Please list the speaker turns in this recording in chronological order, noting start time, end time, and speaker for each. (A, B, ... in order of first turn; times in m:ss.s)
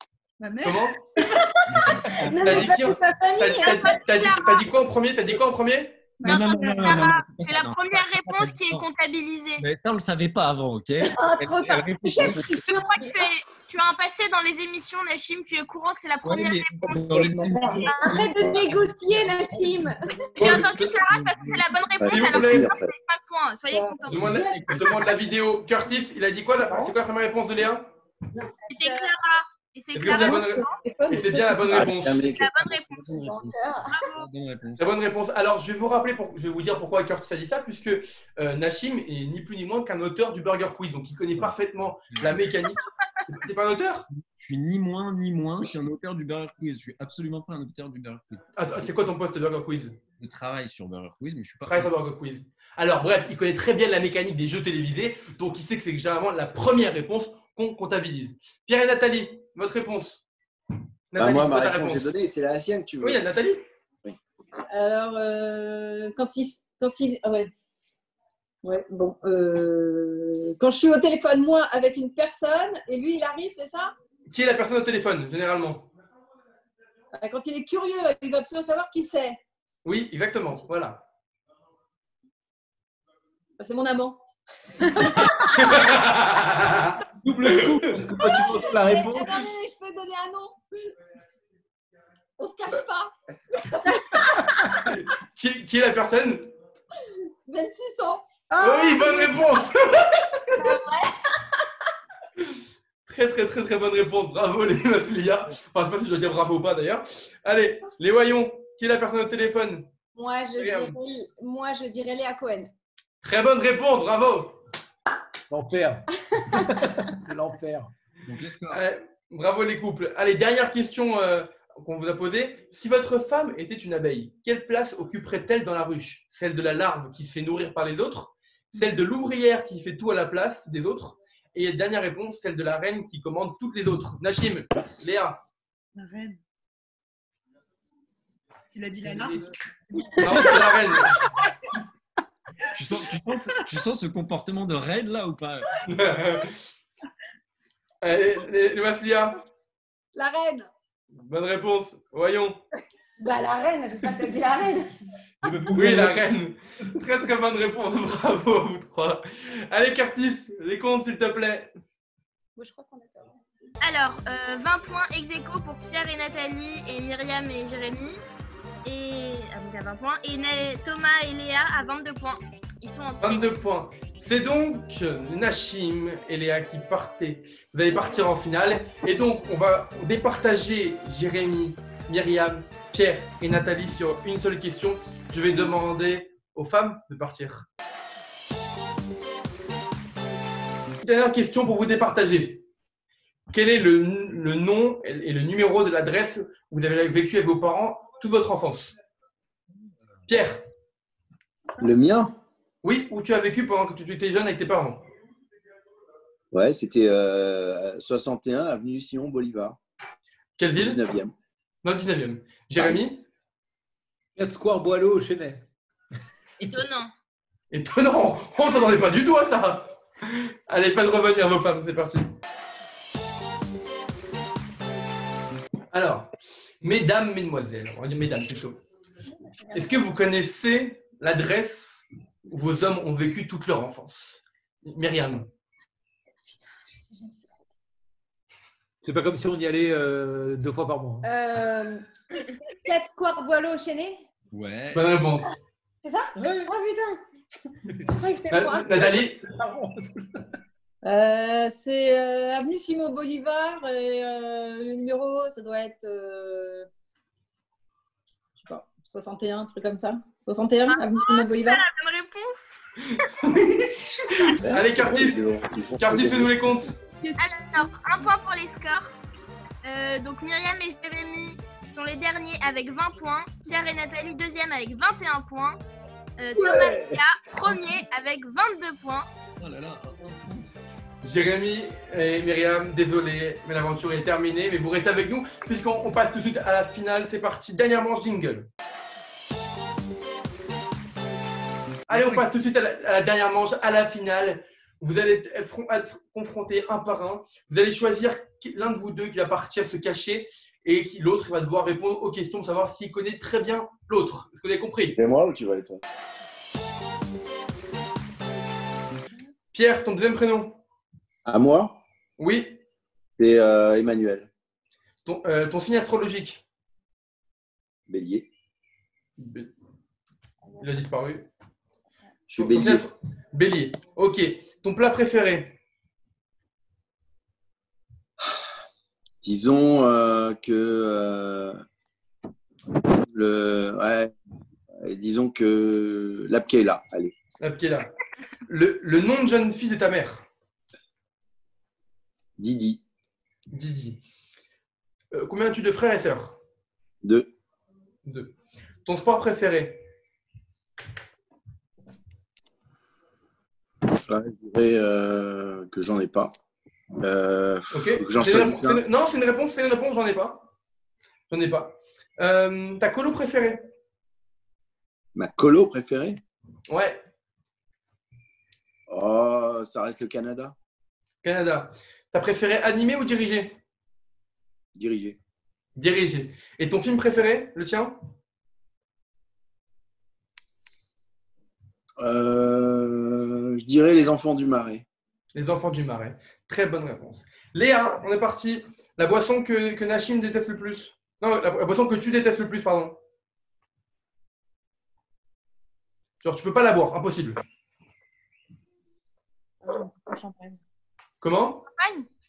0:00.4-0:01.3 A
0:00.6-0:01.1 B
0:01.2-0:04.0 C
0:01.7-0:02.8 D
0:02.4-0:06.1 B
0:03.5-0:04.6 E
0:06.2-0:07.1 A
0:06.2-0:08.9 D
0:06.2-0:09.6 E
0:09.6-0:12.7 D
0:11.0-0:13.2 C
0:12.5-0:17.8 E
0:16.2-0:18.6 D
0:17.6-0:20.1 C
0:20.4-0:21.0 B
0:20.4-0:25.1 E
0:20.4-0:21.6 D
0:22.0-0:22.9 F
0:22.0-0:22.7 B
0:23.7-0:25.0 C
0:24.1-0:25.1 D
0:24.1-0:27.9 B
0:28.3-0:29.1 C
0:28.7-0:30.7 E
0:29.9-0:32.3 B
0:30.3-0:31.6 C
0:31.6-0:32.8 F
0:32.2-0:33.3 E
0:32.7-0:34.9 D
0:33.2-0:34.0 C
0:33.8-0:34.2 E
0:34.8-0:44.1 B
0:42.1-0:42.4 D
0:44.2-0:48.8 D
0:48.6-0:50.0 B
0:50.2-0:51.9 D
0:51.6-1:00.2 B
1:01.1-1:02.1 B
1:01.2-1:03.2 F
1:03.0-1:03.6 B
1:04.7-1:07.5 G
1:08.6-1:13.9 G
1:14.3-1:15.9 B
1:17.2-1:19.4 G
1:19.8-1:21.0 B
1:23.6-1:24.2 G
1:24.8-1:25.7 G
1:25.5-1:28.0 B
1:27.2-1:29.5 H
1:28.2-1:30.9 G
1:32.4-1:34.4 G
1:34.2-1:34.8 C
1:34.7-1:36.5 B
1:37.4-1:38.2 G
1:38.5-1:39.4 C
1:38.6-1:40.7 B
1:40.6-1:41.0 C
1:43.0-1:49.9 B
1:50.1-1:52.7 C
1:50.6-1:50.9 B
1:53.2-1:54.6 B
1:55.5-1:57.9 H
1:58.2-1:58.8 D
1:58.7-2:15.4 B
2:16.0-2:16.4 A
2:18.7-2:21.0 A
2:20.2-2:21.2 B
2:22.7-2:25.8 D
2:25.8-2:26.7 B
2:28.0-2:29.4 B
2:30.1-2:30.7 G
2:31.1-2:32.6 B
2:33.2-2:34.9 C
2:35.4-2:36.2 H
2:35.7-2:41.7 B
2:42.6-2:43.3 C
2:43.8-2:48.2 E
2:48.8-2:53.6 E
2:53.2-3:07.7 B
3:11.0-3:12.6 B
3:13.5-3:19.0 B
3:20.3-3:20.6 B
3:21.8-3:22.4 F
3:22.8-3:25.0 B
3:26.5-3:29.8 F
3:30.6-3:31.0 B
3:30.8-3:31.3 F
3:31.8-3:33.2 B
3:32.8-3:33.0 F
3:34.4-3:35.7 H
3:36.6-3:37.1 E
3:37.7-3:42.3 B
3:45.9-3:48.8 B
3:49.4-3:50.0 C
3:49.7-3:55.5 B
3:56.5-3:57.6 C
3:59.0-4:01.2 H
4:01.2-4:04.2 C
4:04.5-4:05.1 D
4:04.9-4:05.5 B
4:06.0-4:07.2 C
4:06.4-4:06.7 H
4:08.1-4:09.2 C
4:08.5-4:09.4 B
4:09.4-4:10.4 H
4:11.0-4:16.9 G
4:18.6-4:21.8 G
4:20.8-4:23.3 E
4:23.2-4:25.4 B
4:24.6-4:26.7 F
4:26.0-4:27.0 B
4:27.2-4:27.8 A
4:27.4-4:29.1 E
4:29.8-4:35.8 E
4:36.4-4:39.3 E
4:36.5-4:37.7 F
4:39.6-4:40.6 D
4:41.2-4:48.7 B
4:52.1-4:52.4 D
4:52.1-5:05.2 B
5:05.1-5:06.0 F
5:09.7-5:10.8 B
5:11.4-5:12.0 F
5:12.4-5:12.8 B
5:13.4-5:14.5 F
5:15.2-5:16.6 B
5:18.1-5:18.5 F
5:19.4-5:19.7 B
5:20.6-5:21.0 A
5:20.8-5:21.5 B
5:22.5-5:23.0 F
5:22.6-5:25.8 B
5:29.4-5:31.8 F
5:33.2-5:34.3 F
5:34.9-5:37.4 F
5:37.6-5:38.1 B
5:38.7-5:40.4 B
5:42.6-5:43.0 F
5:43.7-5:44.2 B
5:45.3-5:46.6 B
5:47.2-5:47.5 F
5:48.2-5:48.5 B
5:49.0-5:50.0 B
5:54.1-5:56.5 F
5:57.2-5:59.0 F
5:57.9-6:00.6 B
6:01.5-6:03.9 B
6:05.3-6:06.4 F
6:06.9-6:07.2 B
6:09.1-6:10.7 F
6:11.4-6:13.8 B
6:14.9-6:15.4 F
6:16.0-6:18.2 B
6:22.2-6:25.0 F
6:25.5-6:33.2 B
6:36.4-6:37.6 B
6:39.8-6:40.8 A
6:41.4-6:41.8 B
6:41.9-6:42.3 E